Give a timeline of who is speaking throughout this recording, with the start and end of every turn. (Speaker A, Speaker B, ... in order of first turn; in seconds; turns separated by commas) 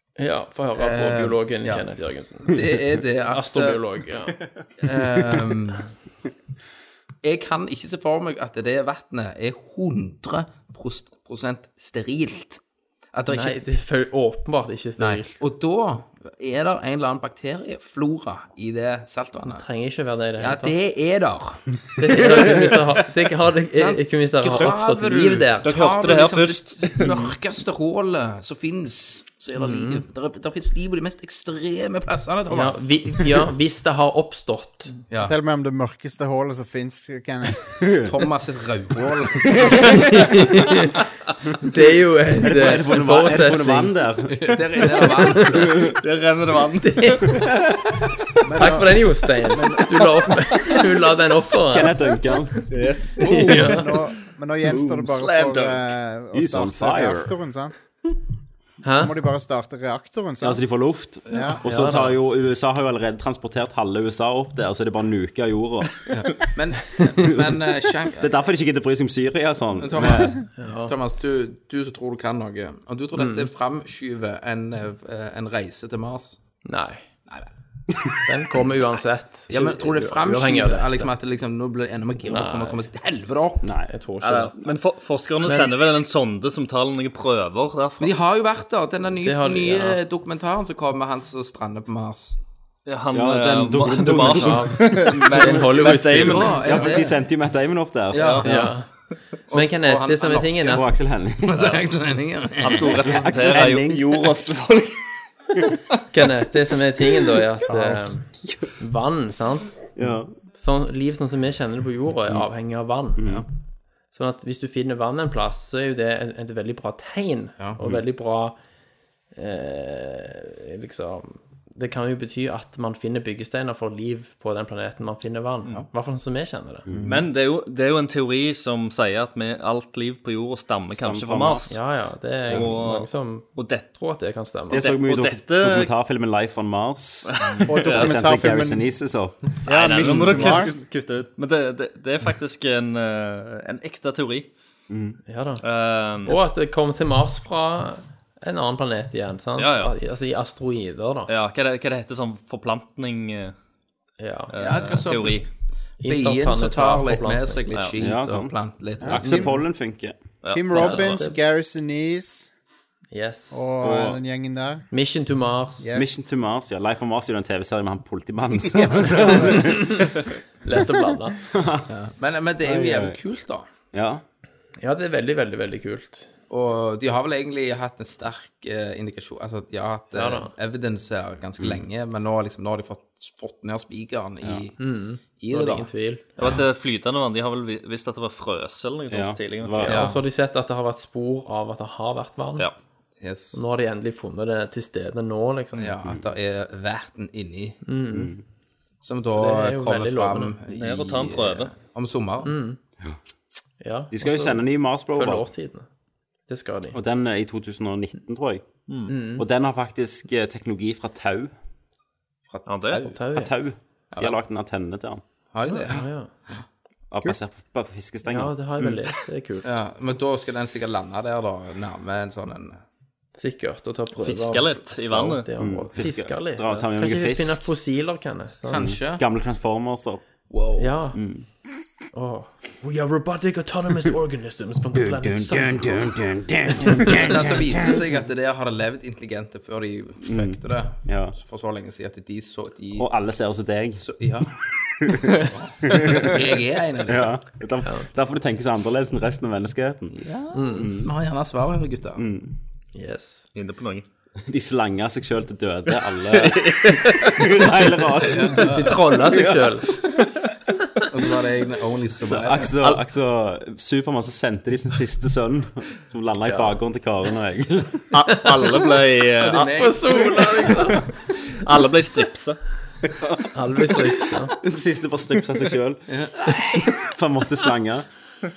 Speaker A: 0.2-2.6, Speaker B: 0.8-1.9, Speaker B: 2.5-3.8, Speaker A: 3.3-4.4, Speaker B: 4.8-5.9, Speaker B: 7.2-12.6, Speaker B: 13.1-13.6, Speaker A: 13.3-15.4, Speaker B: 15.0-19.6, Speaker A: 19.5-20.8, Speaker B: 20.4-22.6, Speaker A: 22.0-25.7, Speaker B: 23.7-32.9, Speaker C: 25.6-27.1, Speaker A: 29.6-30.0, Speaker A: 32.5-34.9, Speaker B: 35.1-35.4, Speaker D: 35.2-37.6, Speaker E: 37.8-38.1, Speaker B: 38.0-40.0, Speaker E: 39.5-40.1, Speaker A: 39.8-41.0, Speaker A: 41.6-43.9, Speaker E: 42.4-44.8, Speaker B: 44.3-45.8, Speaker A: 45.0-45.7, Speaker C: 45.9-47.4, Speaker A: 46.8-47.5, Speaker D: 48.4-49.0, Speaker A: 48.6-52.0, Speaker D: 49.5-50.4, Speaker E: 51.7-52.7, Speaker C: 52.7-53.6, Speaker B: 53.2-53.7, Speaker A: 53.2-53.8, Speaker D: 53.3-57.8, Speaker C: 54.7-55.9, Speaker E: 56.3-57.3, Speaker A: 58.8-59.1, Speaker D: 59.0-60.6, Speaker E: 60.4-66.5, Speaker D: 61.3-61.6, Speaker B: 61.3-61.6, Speaker A: 61.6-62.2, Speaker B: 66.1-68.3, Speaker E: 67.3-67.5, Speaker E: 68.2-70.4, Speaker B: 69.8-76.4, Speaker A: 70.5-70.9, Speaker A: 73.2-73.5, Speaker A: 76.7-77.0, Speaker A: 78.2-81.1, Speaker B: 79.5-83.7, Speaker A: 82.3-82.9, Speaker E: 83.6-83.9, Speaker A: 83.9-84.5, Speaker C: 84.2-88.1, Speaker A: 85.5-85.7, Speaker B: 88.0-92.4, Speaker A: 89.2-90.0, Speaker C: 92.9-96.9, Speaker E: 93.1-98.5, Speaker A: 94.0-96.5, Speaker B: 96.3-97.2, Speaker B: 98.1-98.8, Speaker C: 98.1-98.5, Speaker A: 98.4-98.9, Speaker B: 99.5-100.8, Speaker A: 99.5-100.9, Speaker E: 100.7-101.8, Speaker B: 101.4-103.6, Speaker C: 102.6-105.0, Speaker E: 102.9-104.5, Speaker A: 106.1-109.8, Speaker E: 107.7-108.7, Speaker E: 110.0-110.3, Speaker A: 110.5-113.2, Speaker E: 113.2-113.5, Speaker A: 114.1-118.6, Speaker A: 119.3-126.8, Speaker E: 126.9-127.2, Speaker C: 127.0-131.8, Speaker E: 130.9-131.8, Speaker A: 131.7-134.8, Speaker C: 132.5-133.9, Speaker E: 134.7-139.4, Speaker C: 134.7-135.9, Speaker C: 137.3-138.3, Speaker D: 137.7-138.9, Speaker D: 139.7-140.7, Speaker C: 139.7-144.5, Speaker E: 140.1-140.6, Speaker E: 144.9-145.2, Speaker A: 145.3-145.6, Speaker C: 145.6-146.4, Speaker A: 146.2-151.3, Speaker C: 149.6-149.9, Speaker C: 151.3-153.6, Speaker A: 154.2-154.9, Speaker C: 154.5-155.5, Speaker B: 154.6-155.5, Speaker A: 156.0-157.7, Speaker B: 156.0-159.5, Speaker E: 158.0-160.2, Speaker D: 159.0-159.6, Speaker C: 160.4-161.2, Speaker D: 160.5-162.5, Speaker A: 160.7-161.4, Speaker A: 163.1-163.7, Speaker D: 163.5-164.9, Speaker E: 163.8-164.2, Speaker A: 164.9-165.9, Speaker D: 165.8-166.1, Speaker E: 165.9-170.7, Speaker A: 169.5-170.0, Speaker A: 170.6-171.4, Speaker E: 171.4-171.9, Speaker B: 171.9-173.7, Speaker E: 172.6-173.2, Speaker E: 173.9-174.2, Speaker A: 174.8-176.3, Speaker B: 176.5-185.9, Speaker A: 180.1-180.5, Speaker E: 181.6-181.8, Speaker A: 184.8-186.3, Speaker C: 186.4-189.9, Speaker E: 189.1-190.1, Speaker A: 189.8-192.7, Speaker B: 189.8-190.2, Speaker B: 193.2-193.6, Speaker A: 193.5-195.9, Speaker B: 195.8-197.8, Speaker A: 197.8-198.3, Speaker E: 198.1-198.4, Speaker B: 199.0-202.5, Speaker A: 199.3-200.5, Speaker C: 200.7-201.8, Speaker A: 202.4-202.8, Speaker A: 203.8-205.9, Speaker E: 204.1-205.5, Speaker A: 206.5-207.0, Speaker E: 206.9-208.7, Speaker A: 209.1-209.4, Speaker E: 209.3-211.5, Speaker B: 212.5-213.2, Speaker C: 212.7-213.1, Speaker A: 212.9-213.5, Speaker E: 213.3-215.2, Speaker B: 214.1-214.4, Speaker B: 215.5-216.6, Speaker A: 215.7-216.3, Speaker E: 217.1-219.0, Speaker A: 218.3-219.7, Speaker B: 219.6-222.8, Speaker A: 223.4-228.9, Speaker C: 224.2-225.5, Speaker E: 225.6-227.6, Speaker B: 228.7-229.2, Speaker E: 228.8-230.3, Speaker B: 230.5-231.0, Speaker A: 230.8-231.2, Speaker E: 231.1-231.5, Speaker A: 232.1-236.1, Speaker E: 235.0-238.0, Speaker A: 236.8-237.2, Speaker B: 237.1-243.1, Speaker E: 240.2-241.3, Speaker E: 243.0-244.1, Speaker B: 244.0-244.6, Speaker E: 245.0-246.5, Speaker B: 245.3-247.3, Speaker E: 247.0-251.1, Speaker B: 250.2-252.2, Speaker A: 250.5-250.9, Speaker E: 252.2-252.5, Speaker A: 252.9-253.5, Speaker C: 253.6-254.1, Speaker E: 254.5-259.6, Speaker C: 256.3-257.4, Speaker B: 258.2-259.0, Speaker A: 258.6-259.9, Speaker B: 261.1-262.8, Speaker E: 262.2-268.1, Speaker A: 266.5-266.8, Speaker C: 268.1-269.8, Speaker A: 268.3-268.8, Speaker B: 269.4-271.0, Speaker A: 269.7-271.1, Speaker C: 271.5-272.6, Speaker E: 273.1-273.6, Speaker A: 273.5-274.5, Speaker E: 274.6-278.1, Speaker B: 276.1-276.8